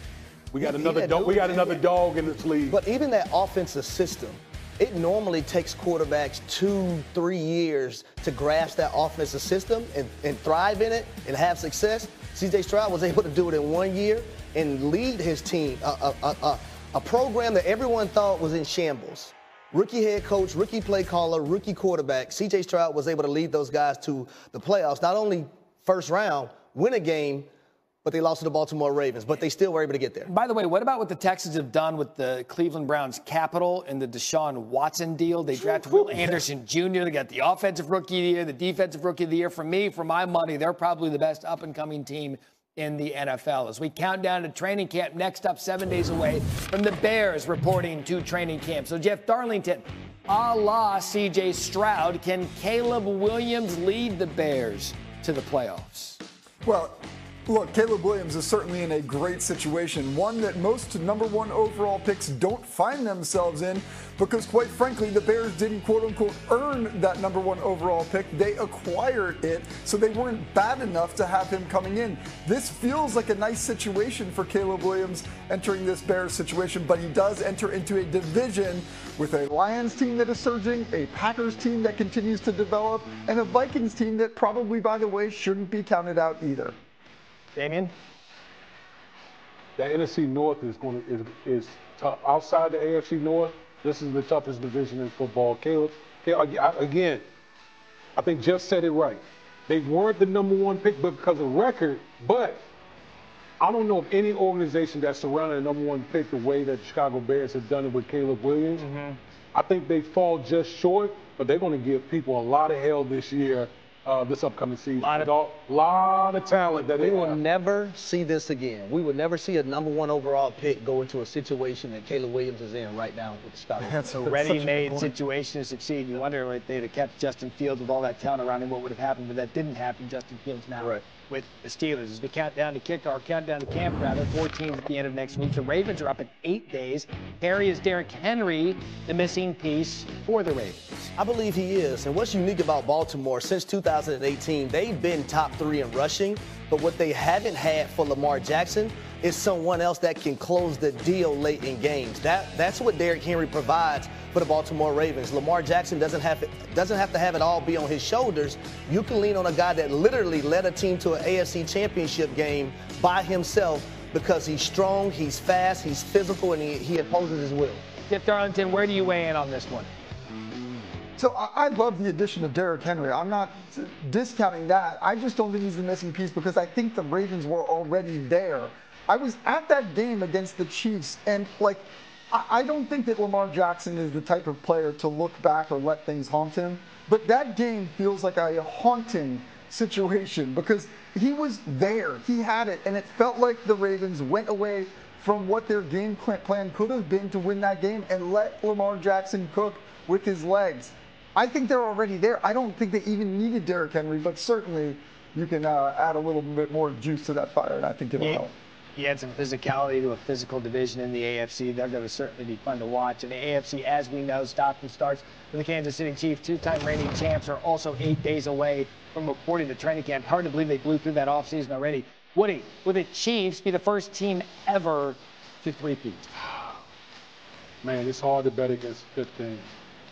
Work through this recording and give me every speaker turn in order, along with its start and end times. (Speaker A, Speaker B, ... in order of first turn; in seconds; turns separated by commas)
Speaker A: 0.5-2.8, Speaker B: 0.6-1.9, Speaker B: 2.7-27.5, Speaker B: 28.1-30.3, Speaker C: 30.3-56.2, Speaker A: 35.5-36.4, Speaker D: 56.6-86.8, Speaker C: 87.5-87.9, Speaker A: 89.8-97.2, Speaker A: 98.2-102.6, Speaker A: 103.6-108.9, Speaker C: 108.8-109.2, Speaker A: 109.5-117.4, Speaker C: 115.0-115.3, Speaker B: 117.0-124.0, Speaker D: 123.8-125.1, Speaker C: 124.2-141.1, Speaker B: 141.2-167.8, Speaker C: 168.1-169.9, Speaker D: 171.2-208.5, Speaker C: 208.2-226.3, Speaker A: 227.8-229.7